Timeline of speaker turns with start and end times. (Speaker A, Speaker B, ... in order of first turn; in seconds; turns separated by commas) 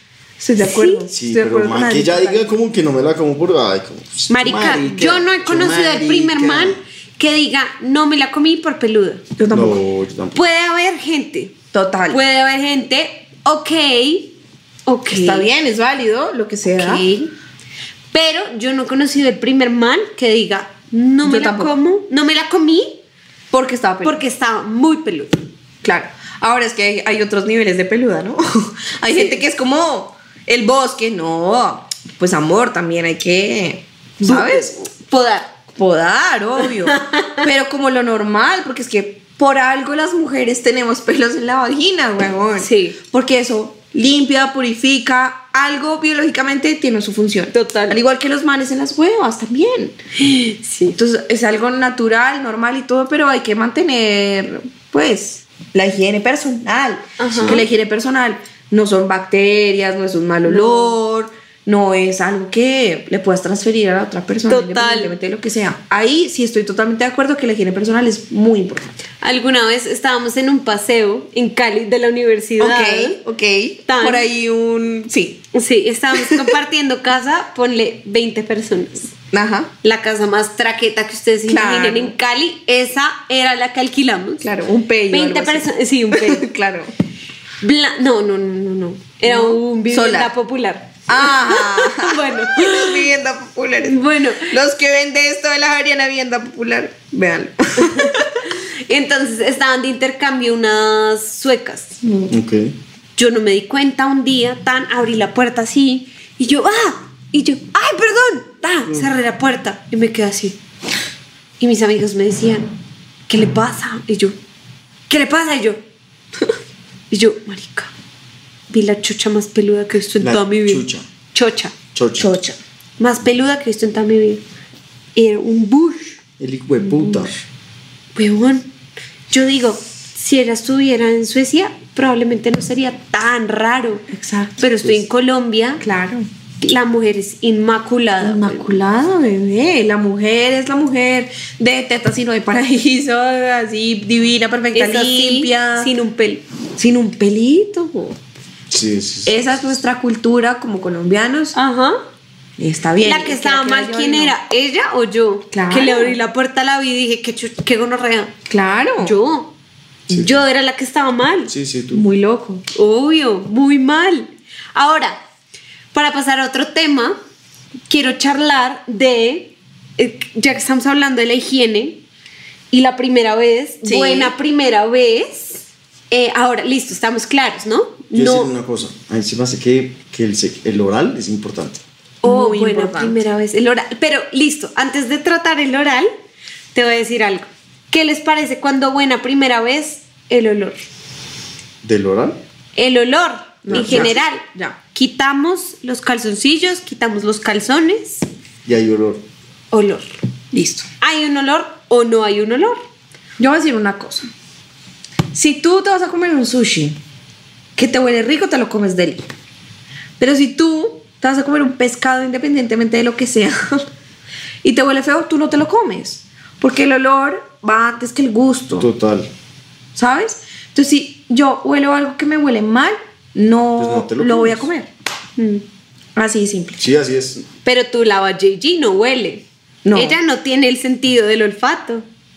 Speaker A: 0.4-2.5, Speaker B: 0.6-1.0, Speaker C: 1.1-6.8, Speaker B: 4.3-9.2, Speaker A: 9.4-9.8, Speaker C: 9.5-10.4, Speaker B: 10.3-11.6, Speaker A: 11.7-12.2, Speaker B: 12.1-14.3, Speaker B: 14.9-15.5, Speaker A: 15.1-17.1, Speaker B: 16.7-17.3, Speaker B: 18.1-23.0, Speaker A: 21.2-21.7, Speaker A: 23.5-24.2, Speaker B: 24.0-25.3, Speaker A: 25.8-34.7, Speaker B: 29.1-29.4, Speaker B: 34.2-35.5, Speaker A: 35.8-50.0, Speaker B: 36.6-37.4, Speaker B: 42.6-43.0, Speaker B: 47.5-48.0, Speaker B: 50.2-51.0, Speaker A: 51.0-68.9, Speaker B: 57.2-57.6, Speaker C: 57.3-57.6, Speaker B: 60.4-61.0, Speaker B: 64.5-65.1, Speaker B: 69.2-73.2, Speaker A: 72.6-75.4, Speaker B: 73.9-74.2, Speaker B: 75.5-79.1, Speaker A: 76.1-76.5, Speaker A: 79.3-79.7, Speaker B: 79.8-84.5, Speaker A: 81.5-82.1, Speaker A: 84.4-86.9, Speaker B: 85.1-86.5, Speaker B: 87.6-93.1, Speaker A: 89.2-90.3, Speaker A: 91.1-98.4, Speaker B: 93.8-94.5, Speaker B: 97.8-102.0, Speaker A: 102.0-102.4, Speaker C: 102.3-102.7, Speaker B: 103.2-110.6, Speaker B: 111.6-112.7, Speaker B: 113.3-114.3, Speaker B: 115.1-115.8, Speaker B: 117.1-117.9, Speaker B: 118.7-121.7, Speaker C: 120.2-121.1, Speaker C: 121.9-122.3, Speaker A: 122.2-122.6, Speaker B: 123.0-124.4, Speaker B: 125.1-126.2, Speaker C: 126.4-127.3, Speaker A: 126.8-127.3, Speaker B: 128.1-128.7, Speaker B: 129.3-134.0, Speaker A: 134.1-134.6, Speaker B: 134.6-135.8, Speaker A: 135.8-136.3, Speaker B: 136.6-138.8, Speaker A: 138.2-145.9, Speaker B: 144.7-146.4, Speaker A: 146.8-148.2, Speaker C: 148.7-149.6, Speaker A: 149.2-151.6, Speaker B: 151.5-152.0, Speaker A: 152.6-154.3, Speaker B: 153.0-158.3, Speaker A: 155.5-156.1, Speaker A: 158.5-159.1, Speaker B: 159.0-159.5, Speaker C: 160.1-160.4, Speaker B: 160.1-161.5, Speaker C: 161.5-162.0, Speaker A: 161.9-162.6, Speaker B: 162.7-165.2, Speaker B: 165.9-167.2, Speaker B: 167.9-172.0, Speaker B: 172.7-178.5, Speaker A: 173.8-174.3, Speaker C: 178.1-181.8, Speaker A: 182.2-183.2, Speaker B: 182.2-186.1, Speaker B: 186.7-190.8, Speaker C: 191.8-192.4, Speaker B: 192.8-198.2, Speaker A: 193.7-194.8, Speaker C: 193.7-194.1, Speaker C: 198.6-199.2, Speaker B: 199.7-200.1, Speaker A: 200.5-200.9, Speaker B: 201.0-202.8, Speaker A: 203.4-204.3, Speaker A: 205.3-207.0, Speaker A: 207.8-209.2, Speaker A: 210.2-213.8, Speaker A: 214.6-218.9, Speaker C: 218.8-219.3, Speaker A: 219.9-224.9, Speaker C: 223.8-224.7, Speaker B: 225.4-225.6, Speaker A: 226.2-226.8, Speaker C: 226.8-227.4, Speaker B: 227.6-232.1, Speaker A: 229.8-230.2